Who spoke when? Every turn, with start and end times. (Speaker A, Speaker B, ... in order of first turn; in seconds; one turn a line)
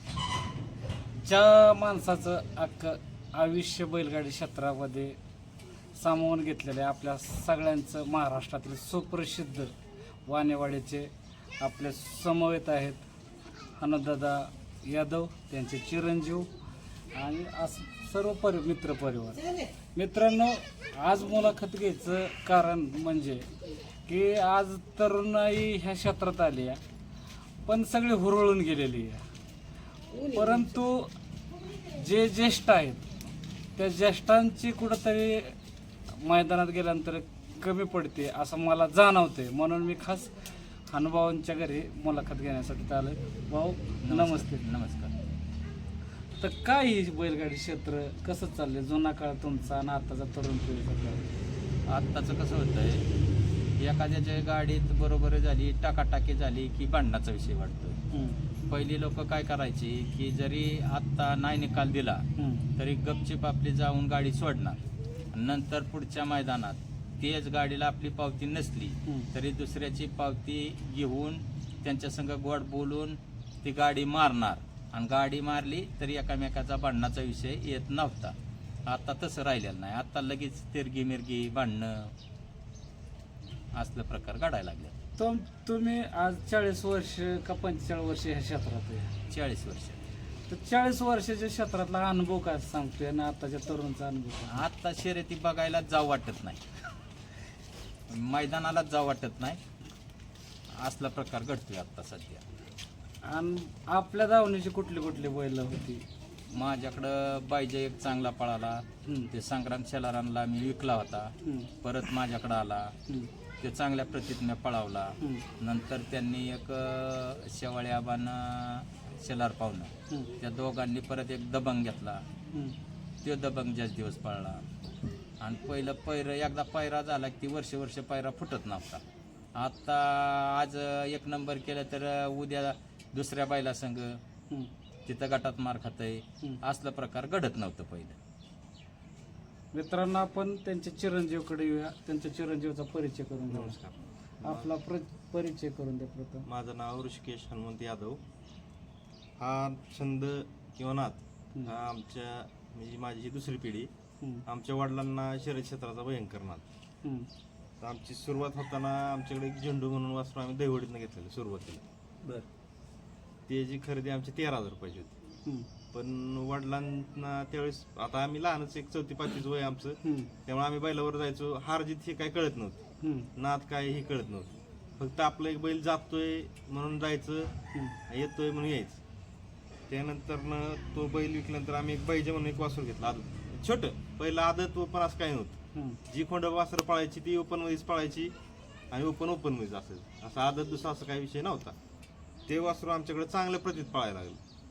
Speaker A: 1.1-5.2
Speaker A: 5.9-9.7
Speaker A: 10.2-13.0
Speaker A: 13.8-16.5
Speaker A: 17.1-23.5
Speaker A: 24.1-26.8
Speaker A: 27.6-29.2
Speaker A: 30.2-31.1
Speaker A: 31.9-33.1
Speaker A: 33.8-35.5
Speaker A: 36.2-40.3
Speaker A: 40.9-44.6
Speaker B: 44.0-45.1
Speaker A: 46.4-51.3
Speaker B: 51.9-53.0
Speaker B: 53.8-58.0
Speaker A: 58.1-58.4
Speaker B: 58.7-62.2
Speaker A: 62.4-62.7
Speaker B: 62.8-64.8
Speaker B: 65.3-78.3
Speaker B: 78.9-82.1
Speaker B: 83.7-84.9
Speaker A: 85.2-89.1
Speaker B: 89.3-90.0
Speaker A: 90.5-94.6
Speaker B: 94.5-96.6
Speaker B: 98.1-99.6
Speaker B: 100.8-102.4
Speaker A: 103.2-106.0
Speaker B: 106.5-112.9
Speaker A: 109.0-109.3
Speaker A: 111.4-111.7
Speaker B: 113.6-122.2
Speaker A: 115.2-115.5
Speaker A: 120.1-120.3
Speaker A: 122.5-122.8
Speaker B: 123.2-124.6
Speaker B: 125.4-129.0
Speaker B: 129.6-134.2
Speaker B: 135.1-138.2
Speaker A: 139.7-143.7
Speaker C: 143.5-144.7
Speaker A: 144.4-146.5
Speaker C: 146.5-148.2
Speaker C: 149.4-153.9
Speaker C: 154.4-156.6
Speaker A: 157.0-157.3
Speaker C: 157.8-161.8
Speaker C: 163.5-165.1
Speaker C: 165.9-172.8
Speaker A: 170.0-170.3
Speaker A: 173.0-173.3
Speaker C: 173.3-177.5
Speaker A: 177.7-178.0
Speaker C: 178.1-179.0
Speaker C: 179.9-188.3
Speaker A: 185.7-186.0
Speaker C: 188.9-191.8
Speaker C: 192.5-194.4